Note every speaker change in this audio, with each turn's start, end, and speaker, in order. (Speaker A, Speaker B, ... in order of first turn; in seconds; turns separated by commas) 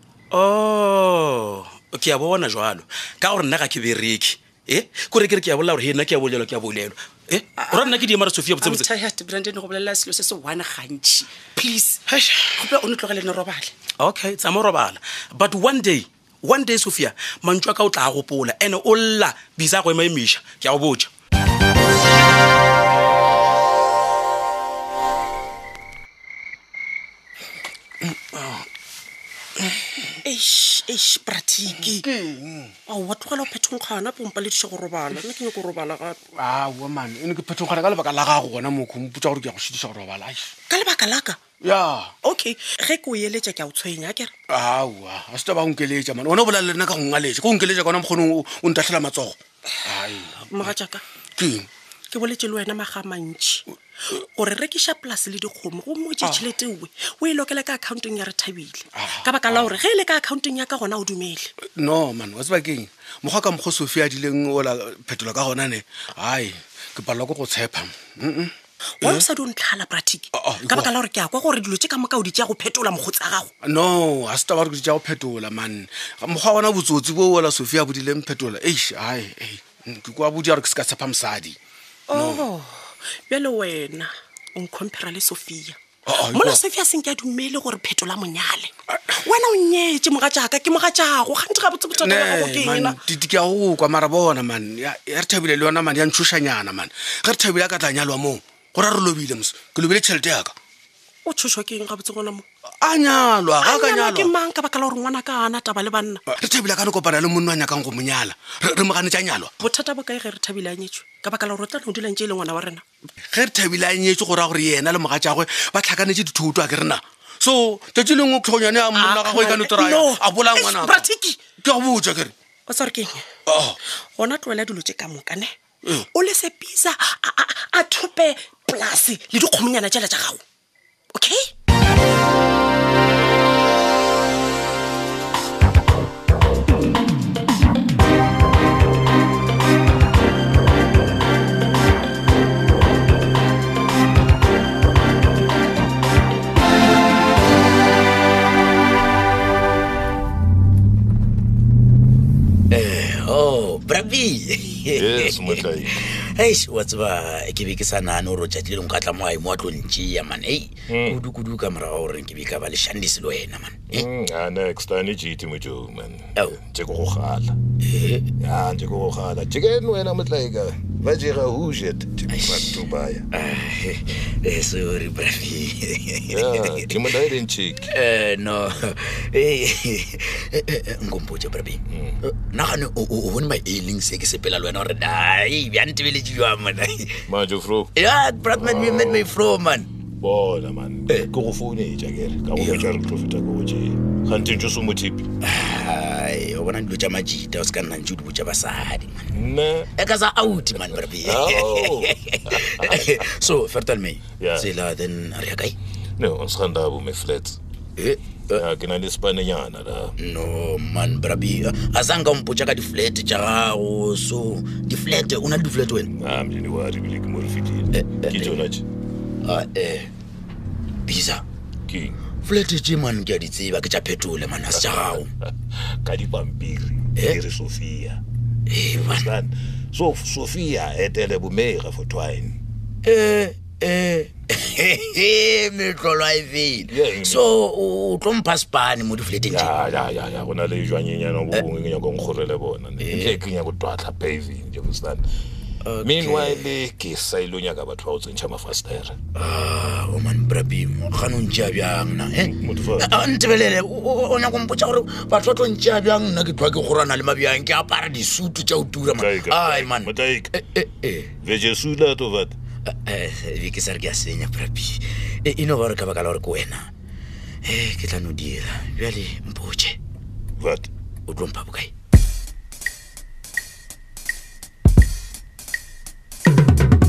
Speaker A: 0.3-8.9, Speaker B: 7.5-8.1, Speaker B: 8.6-13.7, Speaker A: 14.0-21.1, Speaker C: 28.0-28.6, Speaker D: 30.2-32.0, Speaker C: 31.9-32.7, Speaker D: 32.9-36.2, Speaker C: 36.4-40.5, Speaker D: 40.7-41.4, Speaker C: 41.6-42.1, Speaker D: 42.2-44.3, Speaker C: 44.5-50.5, Speaker D: 50.5-51.0, Speaker C: 51.4-51.7, Speaker D: 52.1-61.5, Speaker C: 59.0-59.8, Speaker C: 61.8-68.5, Speaker D: 69.0-73.5, Speaker C: 70.3-70.9, Speaker C: 73.6-81.6, Speaker D: 82.1-93.0, Speaker C: 82.1-82.4, Speaker C: 86.0-86.6, Speaker C: 92.0-100.5, Speaker D: 101.2-102.5, Speaker C: 102.8-104.3, Speaker D: 103.6-106.2, Speaker C: 106.3-109.5, Speaker D: 109.6-112.8, Speaker C: 113.3-122.3, Speaker D: 118.9-121.5, Speaker D: 122.7-123.3, Speaker C: 123.5-123.8, Speaker D: 124.2-130.4, Speaker D: 131.1-131.5, Speaker E: 152.7-164.1, Speaker F: 154.9-155.9, Speaker F: 160.9-161.2, Speaker F: 163.9-167.6, Speaker E: 167.8-168.3, Speaker F: 168.4-173.3, Speaker E: 172.3-177.1, Speaker F: 176.3-177.9, Speaker E: 177.8-187.2, Speaker F: 181.9-182.2, Speaker F: 187.3-187.9, Speaker E: 187.9-189.9, Speaker F: 188.5-189.3, Speaker F: 190.2-195.2, Speaker E: 192.5-192.9, Speaker E: 195.4-199.2, Speaker F: 199.3-199.9, Speaker E: 199.9-205.8, Speaker F: 201.0-203.2, Speaker F: 204.4-204.7, Speaker F: 206.2-207.6, Speaker E: 208.0-208.6, Speaker F: 208.5-210.1, Speaker E: 210.2-216.1, Speaker F: 216.2-218.8, Speaker E: 217.9-218.6, Speaker E: 219.4-220.1, Speaker E: 221.0-221.4, Speaker F: 221.9-222.2, Speaker E: 222.3-225.3, Speaker F: 224.7-225.2, Speaker F: 226.0-228.2, Speaker E: 228.7-229.3, Speaker F: 228.9-232.6, Speaker E: 233.0-239.8, Speaker F: 236.9-237.5, Speaker F: 239.5-245.2, Speaker E: 243.0-243.4, Speaker E: 245.8-246.7, Speaker F: 246.0-249.2, Speaker E: 249.3-261.3, Speaker F: 252.3-253.2, Speaker F: 259.1-260.6, Speaker F: 261.4-262.5, Speaker E: 262.9-266.9, Speaker E: 267.6-270.0, Speaker F: 270.6-270.9, Speaker E: 271.3-271.9